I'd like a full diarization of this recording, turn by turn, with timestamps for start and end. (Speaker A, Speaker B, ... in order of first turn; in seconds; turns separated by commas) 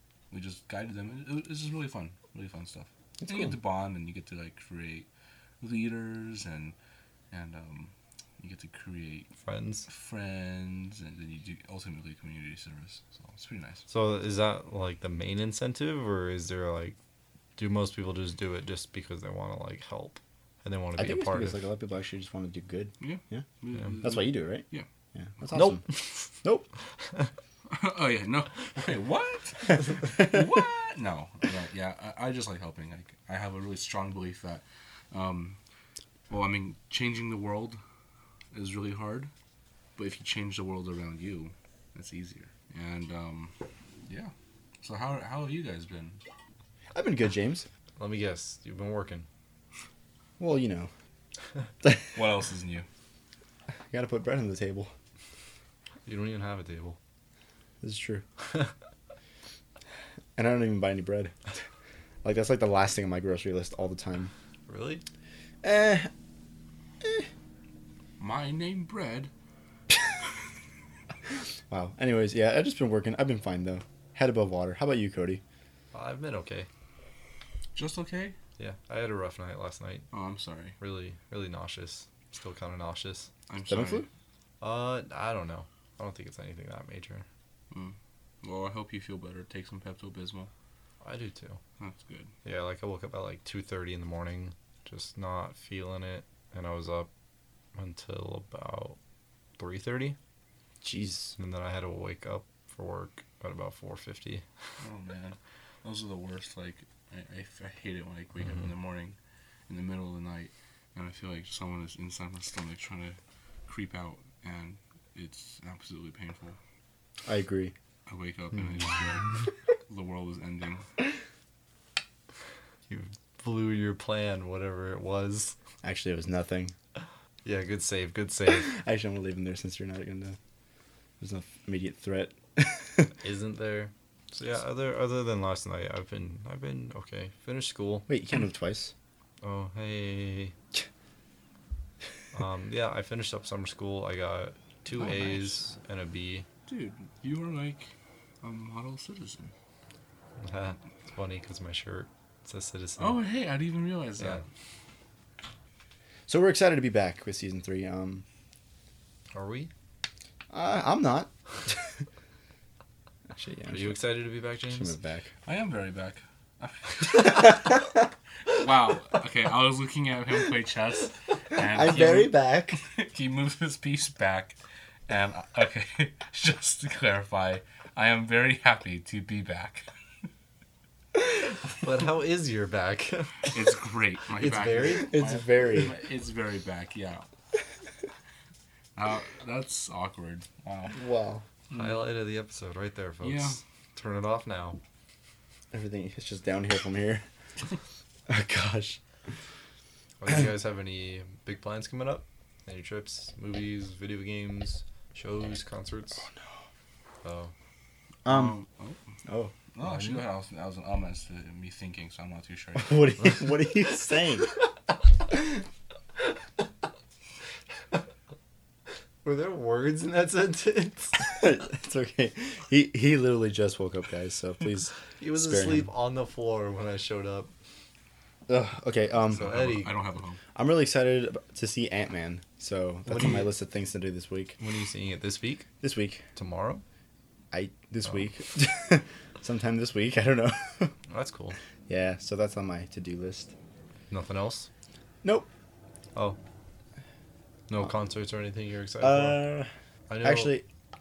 Speaker A: 0.3-5.1, Speaker B: 3.2-3.5, Speaker A: 5.6-6.8, Speaker A: 7.3-9.3, Speaker C: 9.4-9.9, Speaker A: 9.9-13.9, Speaker C: 13.9-17.0, Speaker C: 17.6-21.6, Speaker B: 21.0-23.5, Speaker A: 23.0-24.9, Speaker B: 24.0-25.9, Speaker C: 25.5-26.3, Speaker B: 26.4-26.7, Speaker C: 27.0-27.3, Speaker A: 27.7-35.6, Speaker A: 36.3-37.8, Speaker A: 38.5-39.3, Speaker A: 40.0-43.5, Speaker A: 44.1-46.2, Speaker B: 46.9-47.7, Speaker C: 48.0-49.3, Speaker B: 50.4-50.9, Speaker A: 52.1-52.9, Speaker B: 53.9-54.9, Speaker C: 56.1-57.0, Speaker B: 57.8-58.2, Speaker B: 60.4-61.4, Speaker B: 62.2-64.3, Speaker C: 64.7-65.0, Speaker B: 65.6-66.1, Speaker B: 67.0-67.3, Speaker A: 68.2-69.3, Speaker B: 71.7-75.4, Speaker C: 75.9-76.7, Speaker A: 77.8-78.4, Speaker C: 78.6-80.1, Speaker A: 80.1-80.8, Speaker C: 80.8-83.3, Speaker A: 83.5-84.0, Speaker B: 83.7-84.1, Speaker C: 84.6-87.3, Speaker A: 87.7-90.5, Speaker C: 91.0-91.6, Speaker A: 91.8-92.3, Speaker C: 92.4-97.1, Speaker C: 97.8-99.0, Speaker C: 99.6-100.2, Speaker B: 100.8-101.4, Speaker C: 101.4-104.4, Speaker A: 104.8-109.2, Speaker A: 109.7-116.6, Speaker B: 117.2-117.7, Speaker A: 118.1-120.9, Speaker C: 122.9-125.6, Speaker B: 125.8-126.7, Speaker C: 127.5-128.7, Speaker B: 128.5-130.4, Speaker B: 131.2-133.1, Speaker C: 133.1-138.1, Speaker B: 138.1-138.9, Speaker C: 139.4-140.6, Speaker C: 142.3-146.5, Speaker A: 145.0-145.6, Speaker A: 146.7-149.5, Speaker C: 150.4-153.2, Speaker A: 153.0-154.4, Speaker B: 156.3-158.2, Speaker C: 159.3-159.7, Speaker B: 160.5-161.8, Speaker B: 163.3-164.0, Speaker C: 163.7-165.0, Speaker B: 164.7-165.3, Speaker A: 165.4-167.7, Speaker A: 168.5-174.6, Speaker B: 171.6-172.8, Speaker A: 175.1-179.9, Speaker C: 181.8-183.5, Speaker A: 183.5-187.3, Speaker C: 184.3-185.2, Speaker B: 185.0-185.9, Speaker A: 189.0-191.0, Speaker B: 190.9-191.4, Speaker A: 191.7-192.0, Speaker C: 191.7-194.8, Speaker A: 193.2-193.6, Speaker B: 195.7-197.2, Speaker B: 198.3-199.0, Speaker C: 200.2-206.3, Speaker B: 206.3-206.5, Speaker C: 207.2-207.5, Speaker B: 208.2-208.6, Speaker A: 208.3-209.0, Speaker B: 209.3-210.2, Speaker A: 209.7-213.5, Speaker B: 212.8-214.6, Speaker C: 219.2-221.3, Speaker B: 221.2-225.9, Speaker C: 225.2-227.5, Speaker B: 228.5-229.5, Speaker C: 229.3-229.9, Speaker A: 229.3-230.4, Speaker B: 230.6-234.6, Speaker C: 233.1-233.5, Speaker C: 234.6-235.7, Speaker B: 235.8-236.2, Speaker C: 236.3-236.8, Speaker B: 237.5-240.9, Speaker C: 241.1-241.6, Speaker B: 241.9-243.5, Speaker C: 244.1-244.7, Speaker C: 247.7-249.4, Speaker B: 249.0-249.7, Speaker C: 250.1-250.6, Speaker B: 250.2-250.7